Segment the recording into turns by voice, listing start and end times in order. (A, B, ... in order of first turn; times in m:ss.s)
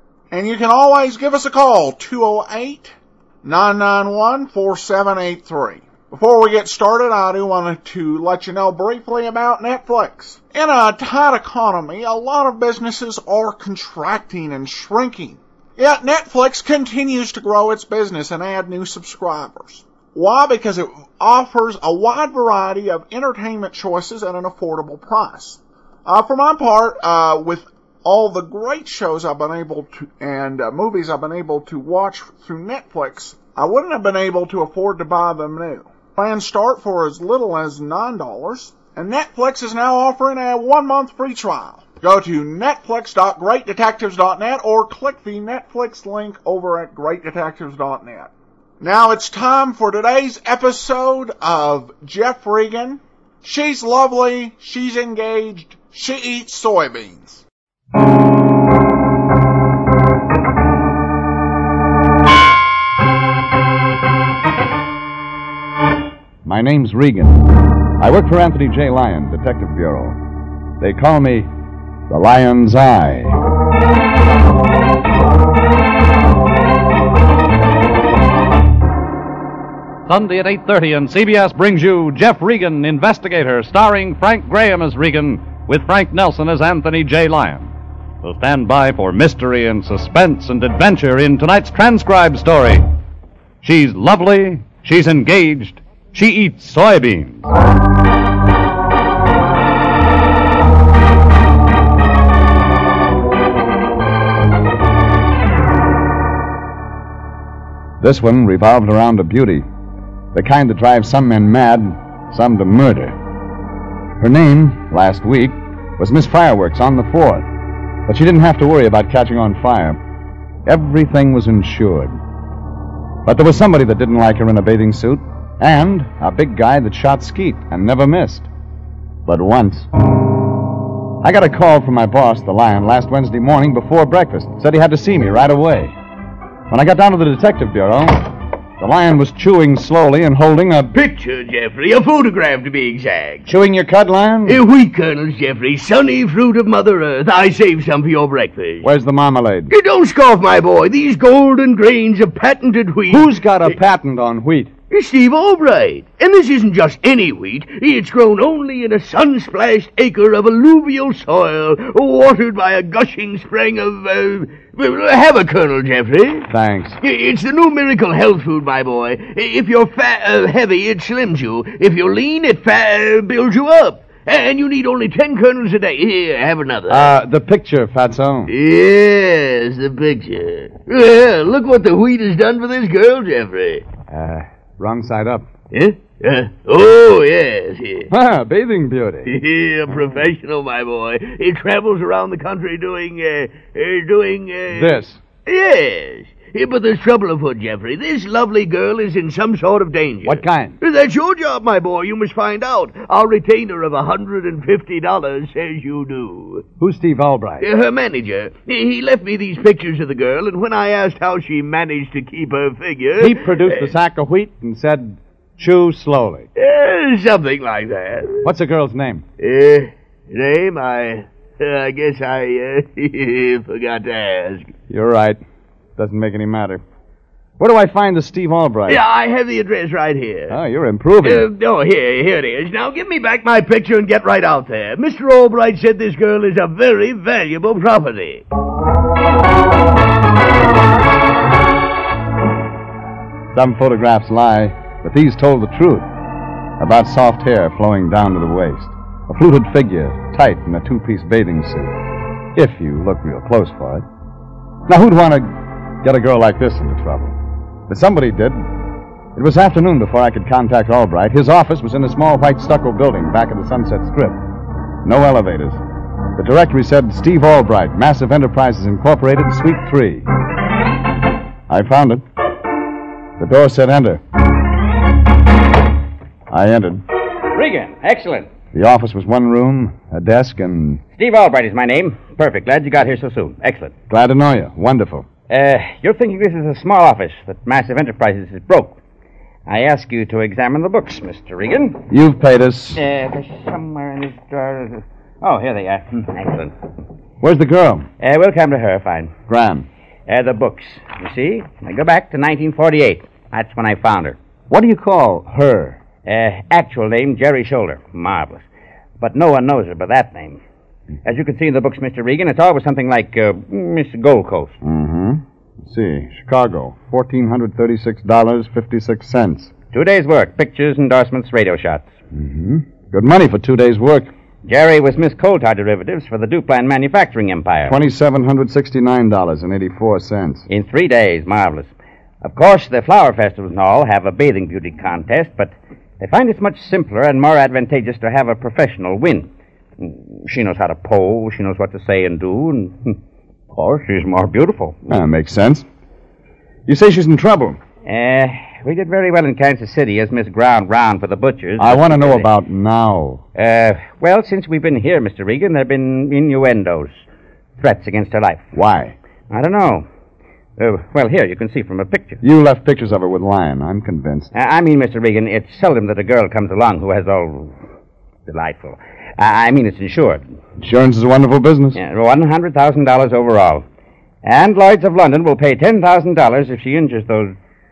0:00.3-0:57.4 A
1:06.4-1:07.5 B
1:08.0-1:10.2 B
1:10.8-1:11.5 B
1:12.1-1:13.4 B
1:20.1-1:27.7 C
1:28.2-1:32.8 C
1:33.6-1:37.5 C
1:48.0-1:49.6 B
1:50.3-1:53.2 B
1:54.2-1:57.5 B
1:58.1-2:00.0 B
2:00.6-2:02.2 B
2:03.2-2:08.5 B
2:09.2-2:09.9 B
2:11.2-2:15.9 B
2:16.7-2:20.9 B
2:20.9-2:23.4 D
2:23.4-2:24.6 B
2:24.4-2:28.9 D
2:28.8-2:29.7 B
2:29.7-2:33.3 D
2:33.1-2:34.7 B
2:34.9-2:46.5 D
2:46.5-2:47.0 B
2:47.0-2:57.1 D
2:56.9-2:58.5 B
2:58.5-3:03.8 D
3:04.1-3:05.5 B
3:05.7-3:08.1 D
3:08.1-3:09.3 B
3:09.2-3:26.6 D
3:14.7-3:15.2 B
3:20.2-3:20.8 B
3:26.8-3:27.7 B
3:27.6-3:33.9 D
3:33.2-3:36.5 B
3:36.6-3:38.4 D
3:38.4-3:39.2 B
3:39.4-3:44.7 D
3:44.9-3:45.4 B
3:46.0-3:46.8 B
3:47.6-3:49.0 B
3:48.9-3:50.5 D
3:50.5-3:51.5 B
3:51.2-3:58.4 D
4:03.5-4:06.1 B
4:06.8-4:11.9 B
4:12.5-4:14.0 B
4:14.9-4:17.4 B
4:17.9-4:18.7 B
4:19.3-4:24.4 B
4:25.0-4:25.8 B
4:26.3-4:30.2 B
4:31.7-4:32.2 B
4:33.4-4:34.2 B
4:36.5-4:37.0 B
4:37.5-4:38.5 E
4:38.7-4:41.0 B
4:41.2-4:43.9 E
4:44.1-4:45.3 B
4:45.5-4:49.0 E
4:49.7-4:52.0 E
4:52.1-4:53.0 B
4:53.0-4:56.7 E
4:57.4-4:58.1 B
4:58.2-4:59.3 E
4:59.5-4:59.9 B
5:00.3-5:04.4 E
5:04.7-5:06.0 B
5:06.2-5:08.6 E
5:09.2-5:10.6 E
5:11.2-5:14.8 E
5:14.8-5:19.7 B
5:19.9-5:22.1 E
5:22.3-5:24.3 B
5:24.6-5:28.0 E
5:27.8-5:30.6 B
5:30.7-5:31.9 E
5:32.4-5:43.2 E
5:43.7-5:45.0 E
5:45.1-5:45.8 B
5:46.9-5:47.8 B
5:48.0-5:52.5 E
5:51.8-5:53.4 B
5:53.6-5:57.2 E
5:57.8-5:58.6 E
5:58.7-5:59.1 B
5:59.5-6:00.0 E
6:00.8-6:02.4 E
6:02.4-6:04.5 B
6:04.5-6:07.7 E
6:08.5-6:10.4 E
6:10.8-6:12.0 B
6:11.9-6:13.8 E
6:14.4-6:17.5 E